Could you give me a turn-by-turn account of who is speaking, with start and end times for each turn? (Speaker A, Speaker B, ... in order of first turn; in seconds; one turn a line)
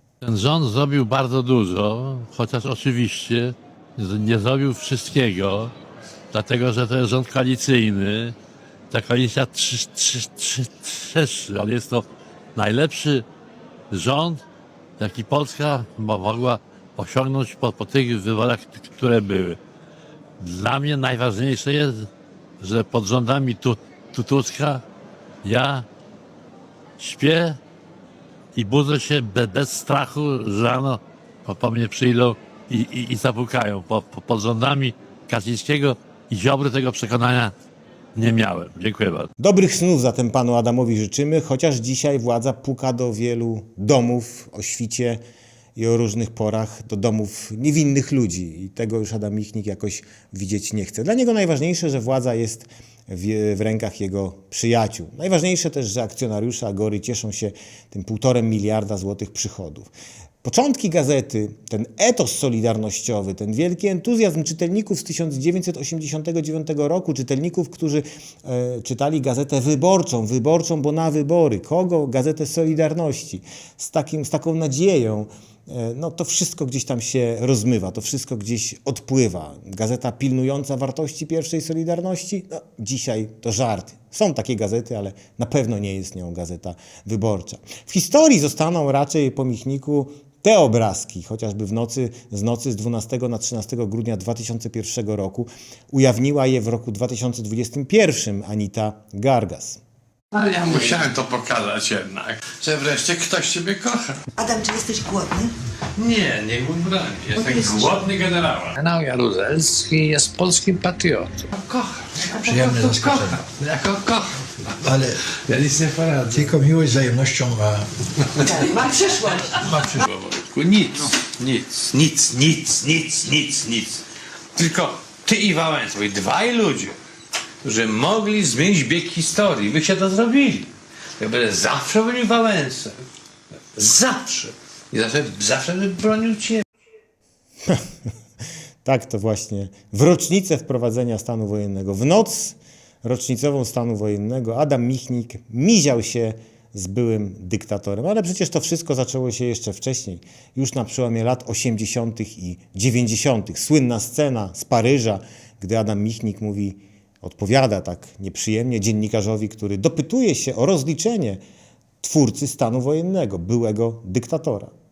Speaker A: 0.2-5.7
Speaker A: 6.3-8.3
Speaker A: 8.9-13.2
Speaker A: 13.9-14.4
Speaker A: 15.0-19.6
Speaker A: 20.4-22.1
Speaker A: 22.6-24.8
Speaker A: 25.4-25.9
Speaker A: 27.0-27.6
Speaker A: 28.5-37.5
Speaker A: 38.1-39.3
Speaker B: 39.4-45.2
Speaker B: 45.8-59.9
Speaker B: 60.4-99.8
Speaker C: 100.3-104.2
Speaker D: 104.4-105.5
Speaker C: 106.0-108.7
Speaker D: 107.3-107.9
Speaker E: 108.8-111.5
Speaker C: 111.7-114.3
Speaker F: 112.4-113.4
Speaker F: 114.8-115.2
Speaker C: 115.3-116.5
Speaker F: 116.3-118.5
Speaker D: 118.5-119.4
Speaker C: 119.4-124.0
Speaker F: 119.6-120.0
Speaker C: 124.5-127.0
Speaker C: 127.6-133.0
Speaker C: 133.7-136.6
Speaker B: 138.8-161.4
Speaker B: 162.0-164.7